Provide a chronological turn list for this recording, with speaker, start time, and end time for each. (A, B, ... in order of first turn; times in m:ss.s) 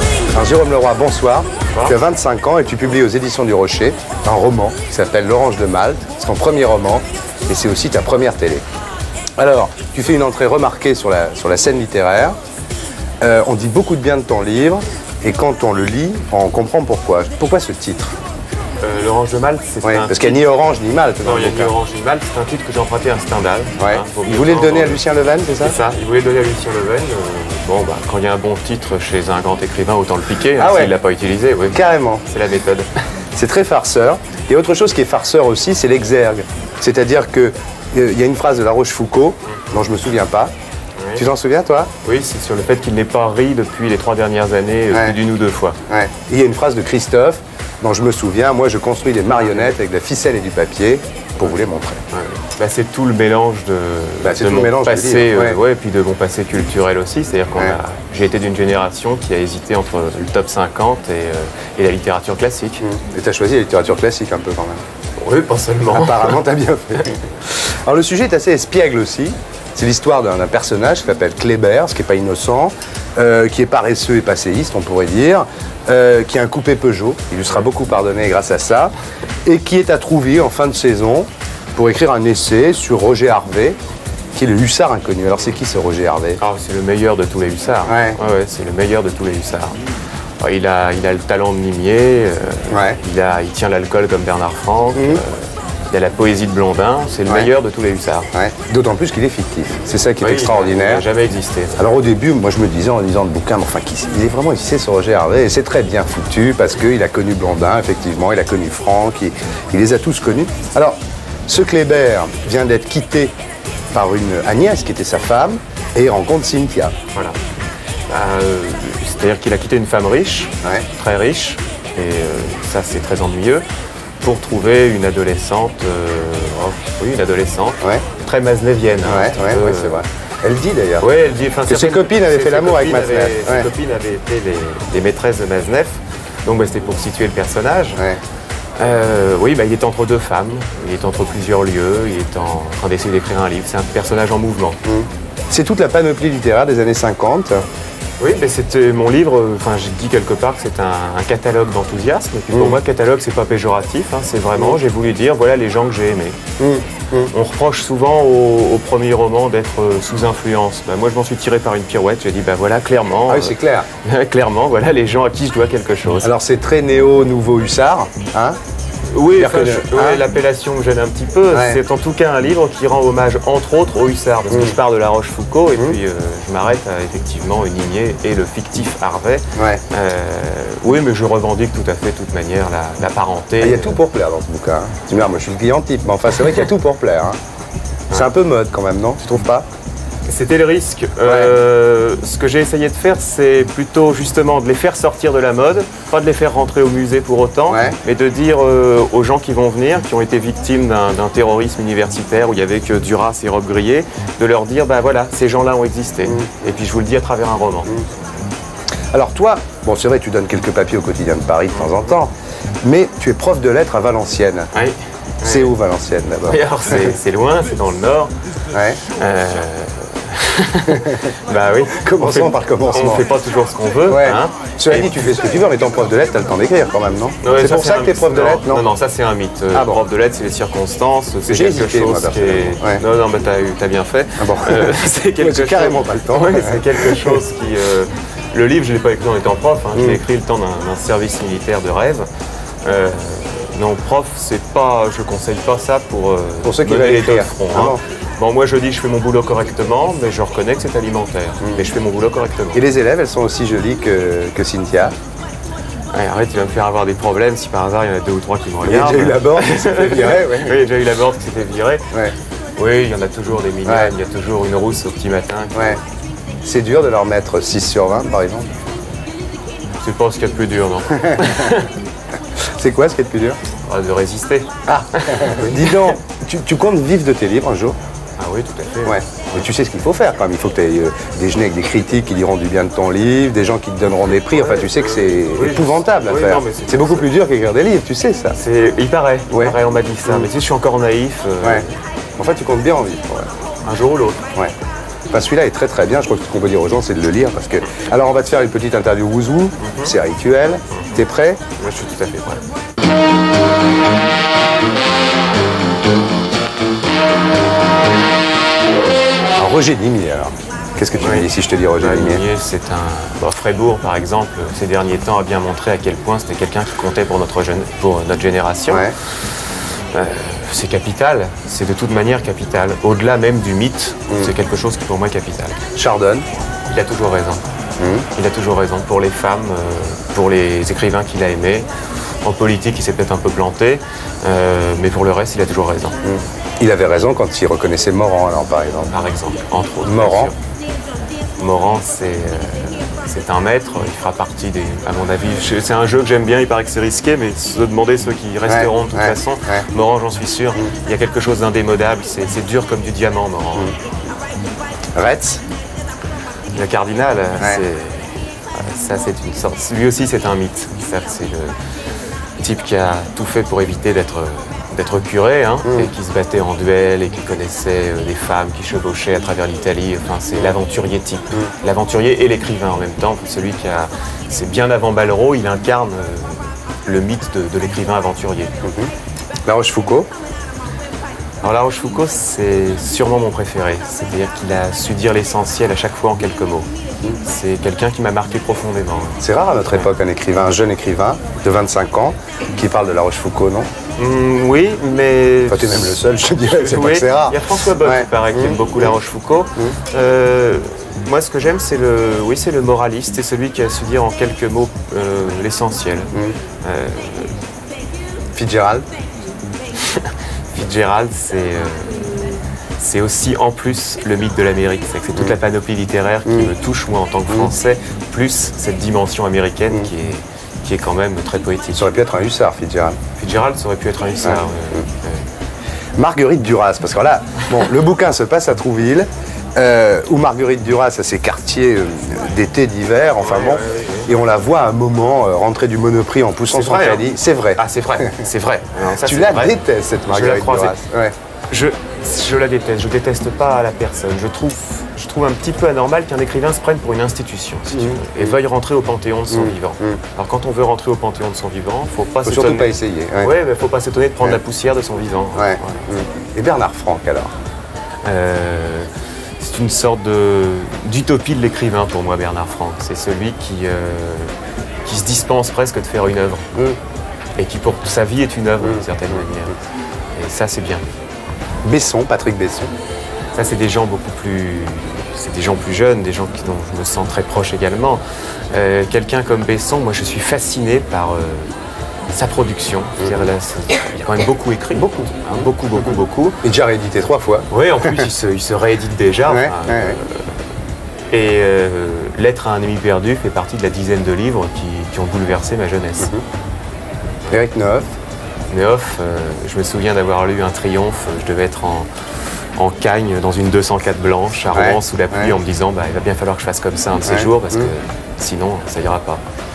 0:00.3-0:08.6 A
0:09.4-0:12.4 A
0:13.2-0:18.2 A
0:18.8-0:20.5 B
0:19.8-0:21.7 A
0:21.2-0:25.0 B
0:23.8-0:25.8 A
0:25.6-0:32.9 B
0:30.6-0:30.9 A
0:31.7-0:32.2 A
0:33.4-0:40.5 A
0:41.0-0:41.2 B
0:41.2-0:41.9 A
0:42.0-0:45.8 B
0:44.9-0:45.2 A
0:45.9-0:52.0 A
0:49.4-0:49.7 B
0:52.1-1:02.8 B
0:54.2-0:55.6 A
1:02.8-1:04.8 A
1:05.2-1:06.4 B
1:05.9-1:18.9 A
1:19.4-1:23.8 A
1:24.4-1:26.4 A
1:26.4-1:29.8 B
1:27.9-1:28.2 A
1:30.4-1:38.3 B
1:32.7-1:33.0 A
1:35.0-1:35.2 A
1:37.3-1:37.5 A
1:38.3-1:41.1 A
1:40.2-1:41.8 B
1:41.8-1:53.3 A
1:53.9-1:56.9 A
1:58.1-2:03.6 B
2:04.2-2:10.0 B
2:09.0-2:11.1 A
2:11.0-2:18.0 B
2:11.7-2:13.7 A
2:18.8-2:24.8 B
2:24.8-2:27.6 A
2:28.2-2:36.4 B
2:32.5-2:32.8 A
2:36.6-2:37.3 A
2:37.3-2:46.3 B
2:43.3-2:43.9 A
2:46.2-2:48.6 A
2:49.1-3:04.0 B
2:49.4-2:50.2 A
2:51.5-2:51.8 A
2:54.5-2:54.8 A
2:59.6-2:59.8 A
3:03.6-3:07.4 A
3:08.1-3:09.7 A
3:10.3-3:28.0 B
3:11.2-3:11.6 A
3:17.7-3:18.0 A
3:26.2-3:26.7 A
3:29.1-3:34.7 A
3:31.7-3:32.1 B
3:34.7-3:35.7 B
3:35.4-3:37.1 A
3:36.5-3:38.3 B
3:38.7-3:39.0 A
3:39.1-3:45.1 B
3:40.9-3:41.3 A
3:42.0-3:43.3 A
3:44.1-3:48.8 A
3:47.4-4:02.3 B
3:49.7-3:50.0 A
3:51.5-3:53.0 A
3:54.4-3:57.4 A
3:59.9-4:00.2 A
4:02.8-4:12.8 B
4:06.6-4:08.0 A
4:12.7-4:15.1 A
4:16.1-4:22.1 B
4:18.8-4:20.8 A
4:22.8-4:26.0 B
4:23.9-4:24.2 A
4:26.6-4:28.8 A
4:30.0-4:31.9 B
4:31.1-4:31.8 A
4:32.8-4:33.6 A
4:33.9-4:36.1 B
4:34.9-4:38.0 A
4:38.4-4:39.6 B
4:39.0-4:48.6 A
4:44.3-4:47.3 B
4:48.6-4:52.0 B
4:49.5-4:50.5 A
4:52.4-4:53.5 A
4:53.8-4:54.4 B
4:55.3-5:01.6 A
4:59.8-5:00.1 B
5:01.8-5:02.6 B
5:09.6-5:12.4 A
5:11.2-5:19.1 B
5:18.9-5:19.2 A
5:20.1-5:25.8 B
5:26.0-5:26.4 A
5:26.9-5:27.6 B
5:28.0-5:28.3 A
5:28.4-5:31.9 B
5:32.4-5:36.2 B
5:36.2-5:39.1 A
5:39.1-5:40.5 B
5:40.0-5:40.5 A
5:41.6-5:54.0 B
5:48.7-5:49.8 A
5:55.2-5:55.6 A
5:56.7-6:01.8 B
6:02.6-6:18.7 B
6:05.8-6:06.1 A
6:18.8-6:19.1 A
6:19.7-6:20.3 A
6:21.6-6:26.9 B
6:27.4-6:30.1 B
6:29.4-6:33.9 A
6:34.2-6:46.3 B
6:35.7-6:39.2 A
6:46.8-6:47.5 B
6:48.6-6:49.1 A
6:50.0-7:02.1 B
6:56.5-6:56.7 A
7:01.9-7:03.2 A
7:03.4-7:05.5 B
7:04.4-7:05.0 A
7:06.2-7:18.4 A
7:13.4-7:14.3 B
7:16.7-7:21.0 B
7:19.2-7:21.3 A
7:21.7-7:32.9 B
7:27.9-7:28.6 A
7:29.5-7:30.2 A
7:32.4-7:33.6 A
7:33.4-7:36.2 B
7:35.6-7:37.5 A
7:38.2-7:44.5 B
7:45.0-7:46.7 B
7:47.6-7:49.8 B
7:48.8-7:49.4 A
7:50.4-7:51.0 B
7:51.8-7:52.9 A
7:53.6-8:01.7 B
8:02.3-8:06.6 B
8:03.2-8:03.4 A
8:04.9-8:05.4 A
8:06.6-8:08.3 A
8:07.7-8:10.5 B
8:09.5-8:10.2 A
8:11.3-8:16.3 B
8:17.5-8:18.1 A
8:18.7-8:22.1 B
8:22.8-8:29.4 B
8:24.7-8:25.6 A
8:27.2-8:27.9 A